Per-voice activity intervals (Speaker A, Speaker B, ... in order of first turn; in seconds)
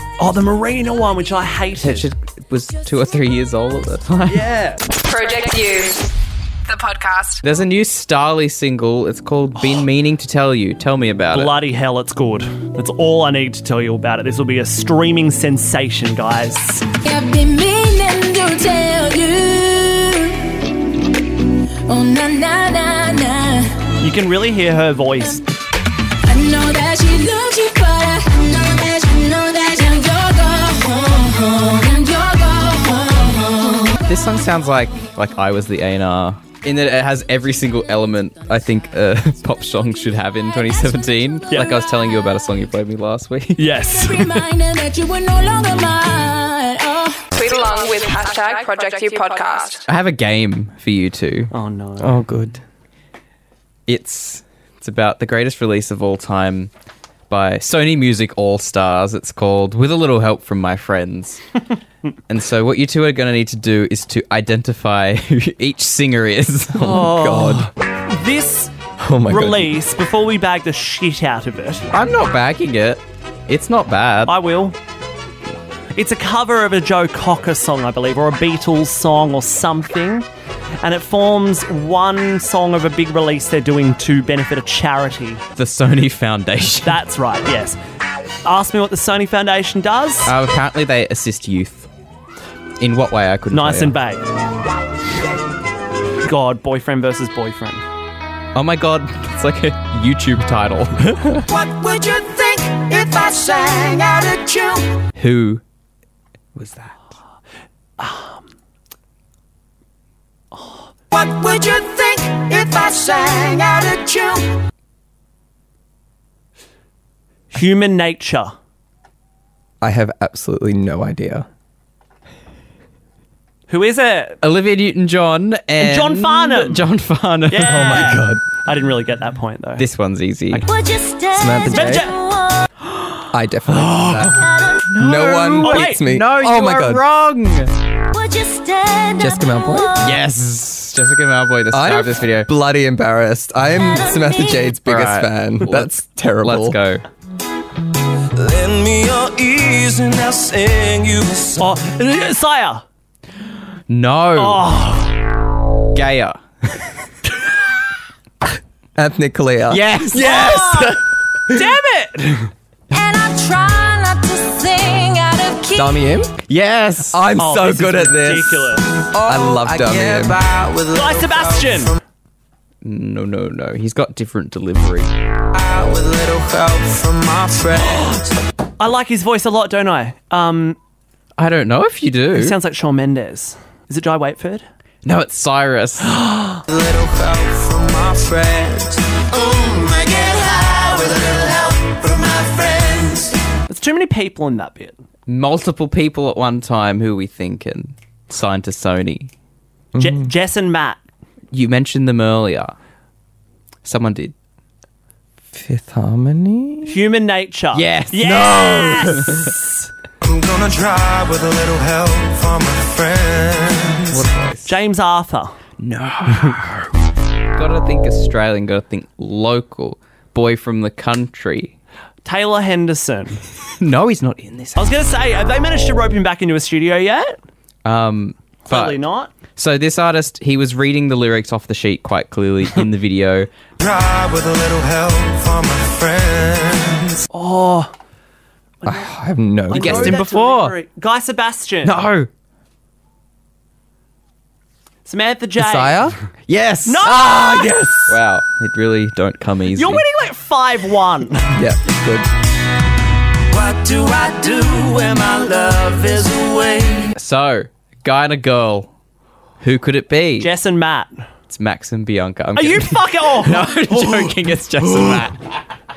Speaker A: 0.2-2.1, 4.3-4.8, 11.3-16.9, 24.0-25.4, 43.6-44.5, 51.5-52.1, 66.8-71.9, 74.3-74.8, 76.0-80.3, 80.8-85.4, 86.8-87.8, 88.5-90.3, 93.5-94.3, 96.2-97.8, 108.0-108.4, 110.5-110.9, 117.5-118.5, 123.7-124.4, 125.8-126.8, 127.5-129.8, 131.6-132.3, 135.6-136.0, 151.6-152.8, 154.4-155.1, 160.1-162.5, 167.4-168.9, 170.9-171.9, 178.8-180.8, 182.3-184.7, 193.7-195.0, 200.0-201.0, 206.8-209.7, 214.7-215.6, 222.2-223.4, 224.8-227.4, 228.7-229.3, 237.3-237.9, 238.8-239.1, 239.7-242.1, 245.1-246.2, 246.9-247.8, 249.8-251.5, 260.4-261.3, 262.6-264.3
Speaker B: 1.8-4.5, 7.4-11.6, 34.0-43.7, 49.9-51.5, 53.9-56.7, 57.3-61.4, 62.3-67.0, 71.9-74.3, 85.6-87.0, 90.2-91.9, 92.8-94.0, 98.5-101.5, 105.2-105.6, 106.6-107.0, 124.4-128.2, 129.8-130.7, 133.7-137.7, 140.0-142.5, 144.8-147.0, 153.9-154.6, 155.9-156.9, 159.7-160.5, 166.5-167.3, 172.8-175.1, 181.4-182.6, 185.0-186.1, 195.3-199.3, 201.5-202.7, 203.8-204.3, 207.7-209.5, 214.1-214.7, 215.8-216.9, 217.6-221.8, 223.8-224.9, 227.8-229.0, 229.6-233.5, 239.7-240.7, 241.8-242.3, 246.5-247.0, 248.1-250.0, 257.1-258.9, 259.6-260.5, 261.5-265.5
Speaker C: 4.9-6.1, 6.7-7.4, 47.3-49.9
Speaker D: 17.0-20.7, 21.9-23.9, 26.2-34.0, 43.9-47.2, 130.9-131.3, 138.2-139.1, 162.9-166.0
Speaker E: 52.0-52.6, 66.8-67.7, 69.0-69.8, 119.8-121.5, 127.6-128.4, 131.3-132.1, 133.3-137.0, 139.2-140.1, 141.7-146.8, 159.0-161.0, 165.7-166.4, 167.1-170.4, 199.9-200.3, 205.5-207.0, 209.0-209.3, 238.8-240.2, 245.6-246.2, 247.0-248.2, 251.5-252.3
Speaker F: 101.5-104.9, 111.1-114.5, 148.3-151.7, 169.1-172.0, 175.5-178.3, 186.7-193.4, 210.2-214.2, 233.8-237.2, 253.5-257.1